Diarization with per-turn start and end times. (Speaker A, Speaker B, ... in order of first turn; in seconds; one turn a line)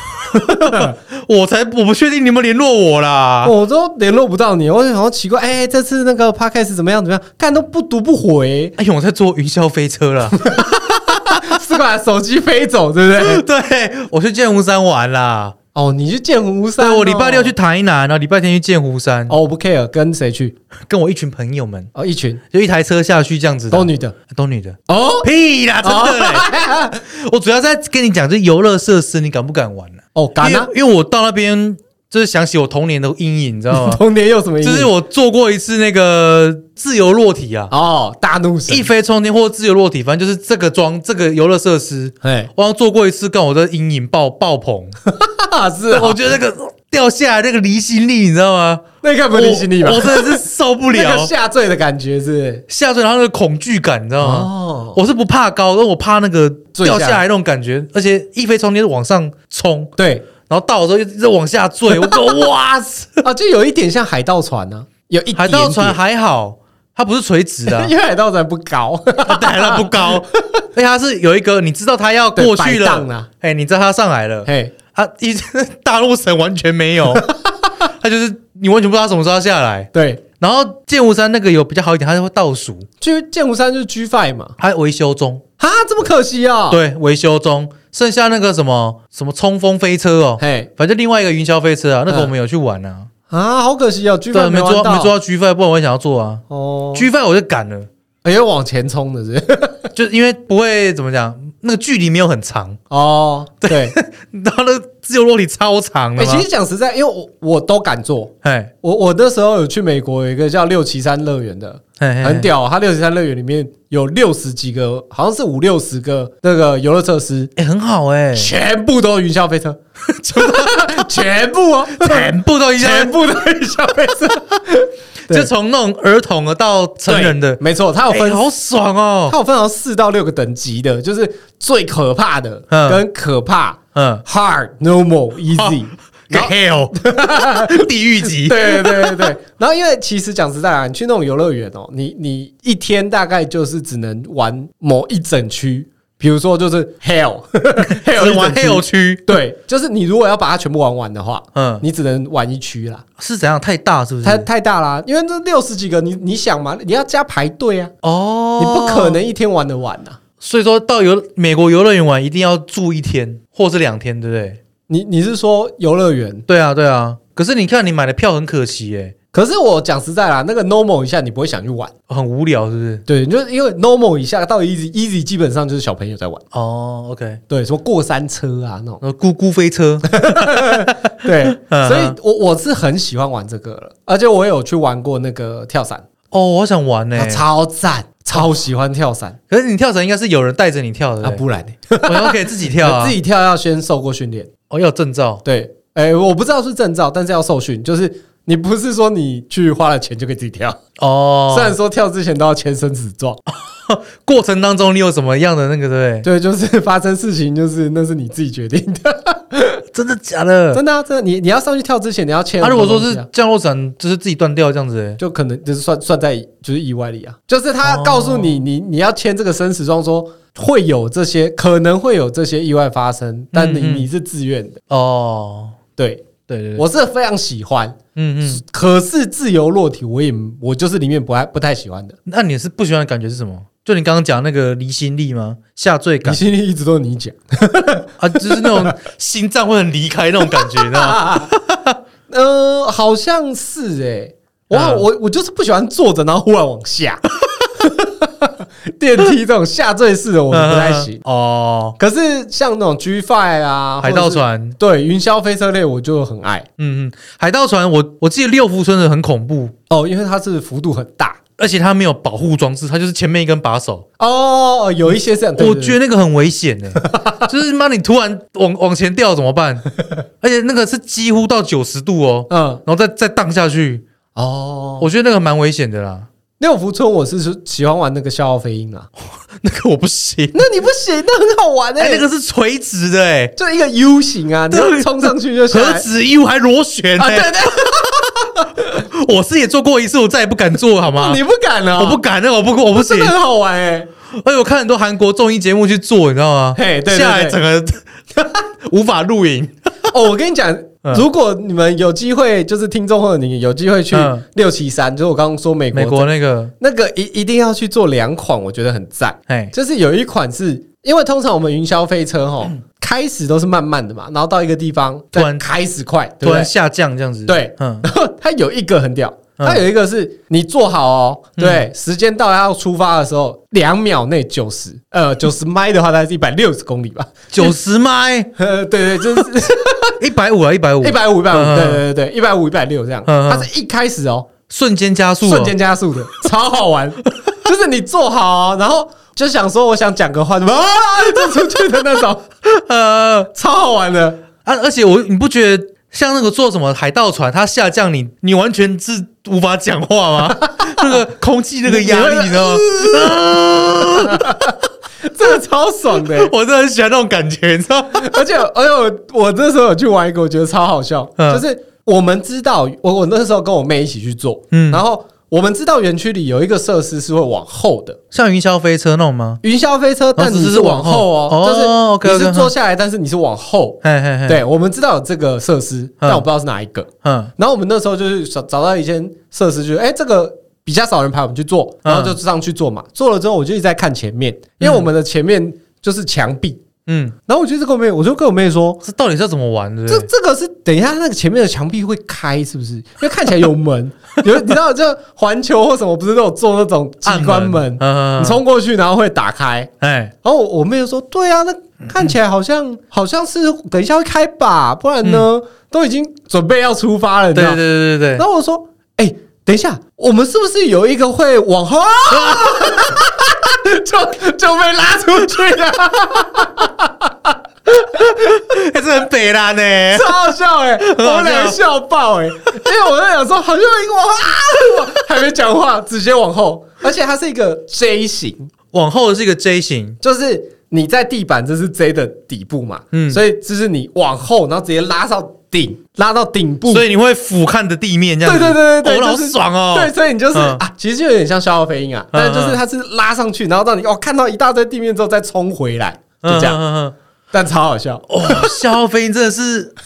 Speaker A: 0.1-3.5
Speaker B: 0.3-1.0
Speaker B: 3.4-8.8
Speaker A: 8.8-10.7
Speaker B: 10.4-13.4
Speaker A: 13.2-15.6
Speaker B: 15.7-17.5
Speaker A: 16.8-19.3
Speaker B: 19.3-20.6
Speaker A: 20.9-21.9
Speaker B: 21.9-22.4
Speaker A: 22.5-26.5
Speaker B: 23.7-24.2
Speaker B: 24.9-25.3
Speaker B: 25.8-27.0
Speaker A: 27.0-34.0
Speaker B: 30.1-30.7
Speaker B: 33.7-34.9
Speaker A: 34.6-37.7
Speaker B: 37.7-38.9
Speaker A: 38.7-45.0
Speaker B: 42.2-42.5
Speaker B: 45.1-46.2
Speaker A: 45.9-51.3
Speaker B: 49.0-52.6
Speaker A: 52.7-63.2
Speaker B: 54.2-55.0
Speaker B: 56.8-57.2
Speaker B: 60.0-60.3
Speaker B: 63.2-66.0
Speaker A: 65.4-67.9
Speaker B: 67.7-70.6
Speaker A: 69.2-77.3
Speaker B: 72.4-73.3
Speaker B: 74.5-74.8
Speaker A: 77.9-79.9
Speaker B: 79.9-80.2
Speaker A: 80.4-82.9
Speaker B: 83.0-84.6
Speaker A: 84.6-85.4
Speaker B: 85.6-86.8
Speaker A: 86.7-93.1
Speaker B: 90.4-90.7
Speaker B: 93.3-95.1
Speaker A: 94.3-96.4
Speaker B: 96.5-97.1
Speaker A: 96.9-97.9
Speaker B: 98.2-99.9
Speaker A: 100.0-102.8
Speaker B: 102.9-104.0
Speaker A: 103.7-106.5
Speaker B: 106.2-117.5
Speaker A: 108.4-108.7
Speaker A: 112.0-112.5
Speaker A: 117.6-118.5
Speaker B: 118.3-119.8
Speaker A: 120.1-121.1
Speaker B: 120.3-125.5
Speaker A: 122.0-123.2
Speaker A: 125.3-129.4
Speaker B: 127.1-128.4
Speaker B: 129.3-153.1
Speaker A: 132.7-133.0
Speaker A: 133.9-134.2
Speaker A: 135.5-139.3
Speaker A: 147.9-149.4
Speaker A: 151.6-151.8
Speaker A: 153.2-154.5
Speaker B: 154.2-157.9
Speaker A: 158.0-159.2
Speaker B: 158.6-160.2
Speaker A: 160.4-164.6
Speaker B: 164.9-166.5
Speaker A: 166.5-169.1
Speaker B: 169.3-171.9
Speaker A: 172.1-173.0
Speaker B: 173.1-176.4
Speaker A: 176.5-177.4
Speaker B: 177.5-179.0
Speaker A: 179.0-182.2
Speaker B: 180.0-186.1
Speaker A: 186.3-187.4
Speaker B: 187.2-189.4
Speaker A: 189.5-191.4
Speaker B: 191.2-194.5
Speaker A: 192.1-193.2
Speaker A: 194.7-195.4
Speaker B: 195.4-200.8
Speaker A: 201.0-201.8
Speaker B: 201.5-203.4
Speaker A: 203.5-206.3
Speaker B: 206.2-209.8
Speaker A: 209.9-210.8
Speaker B: 210.7-213.3
Speaker A: 212.6-215.2
Speaker B: 215.2-224.8
Speaker A: 217.8-218.7
Speaker A: 223.5-224.1
Speaker A: 224.9-225.8
Speaker B: 226.0-232.2
Speaker A: 226.5-226.8
Speaker A: 228.2-228.6
Speaker A: 232.3-236.4
Speaker B: 236.2-239.0
Speaker A: 238.2-242.0
Speaker B: 240.5-241.5
Speaker B: 242.3-247.2
Speaker A: 244.7-245.1
Speaker B: 247.8-251.2
Speaker A: 250.5-252.0
Speaker B: 252.0-256.7
Speaker A: 254.0-254.8
Speaker A: 256.8-259.7
Speaker B: 259.9-261.4
Speaker A: 261.6-264.1
Speaker B: 264.2-266.0
Speaker A: 265.6-269.9
Speaker B: 267.0-267.5
Speaker A: 270.4-274.0
Speaker B: 272.5-272.8
Speaker B: 274.4-275.1
Speaker A: 275.0-276.3
Speaker B: 276.6-279.1
Speaker A: 279.6-280.6
Speaker B: 280.5-282.3
Speaker A: 282.0-283.5
Speaker B: 283.6-286.1
Speaker A: 284.7-287.5
Speaker B: 287.2-289.0
Speaker A: 288.8-291.4
Speaker B: 291.1-292.2
Speaker A: 292.0-293.4
Speaker B: 293.0-294.1
Speaker A: 294.3-298.0
Speaker B: 296.8-297.6
Speaker A: 298.8-299.7
Speaker B: 300.1-316.7
Speaker A: 304.1-304.4
Speaker A: 305.9-306.7
Speaker A: 309.5-309.7
Speaker A: 315.3-315.6
Speaker A: 316.4-318.1
Speaker B: 317.5-327.8
Speaker A: 319.6-319.8
Speaker A: 321.6-321.9
Speaker A: 327.5-328.5
Speaker B: 328.6-330.2
Speaker A: 330.2-332.0
Speaker B: 331.0-334.5
Speaker A: 333.3-333.7
Speaker A: 334.7-335.8
Speaker B: 335.4-342.5
Speaker A: 342.6-343.5
Speaker B: 343.5-344.4
Speaker A: 344.6-354.8
Speaker B: 350.6-351.2
Speaker B: 351.9-353.4
Speaker B: 354.0-356.5
Speaker A: 356.2-358.4
Speaker B: 358.1-368.2
Speaker A: 361.4-361.6
Speaker A: 364.7-365.0
Speaker A: 368.3-369.6
Speaker B: 369.6-386.8
Speaker A: 370.4-372.7
Speaker A: 374.0-374.6
Speaker A: 376.2-376.5
Speaker A: 377.2-377.5
Speaker A: 382.1-382.4
Speaker A: 384.8-385.1
Speaker A: 387.1-387.4
Speaker B: 387.5-389.0
Speaker A: 389.0-390.3
Speaker B: 390.1-399.9
Speaker A: 397.2-398.6
Speaker A: 400.0-400.3
Speaker B: 400.4-407.8
Speaker A: 407.5-408.4
Speaker B: 408.4-418.6
Speaker A: 412.3-413.1
Speaker A: 418.1-420.4
Speaker B: 420.1-428.7
Speaker A: 421.0-421.8
Speaker A: 428.9-430.2
Speaker B: 430.2-437.1
Speaker A: 433.1-433.4
Speaker A: 436.9-440.8
Speaker B: 438.4-446.8
Speaker A: 442.3-442.8
Speaker A: 446.4-447.1
Speaker B: 447.5-448.8
Speaker A: 448.3-449.9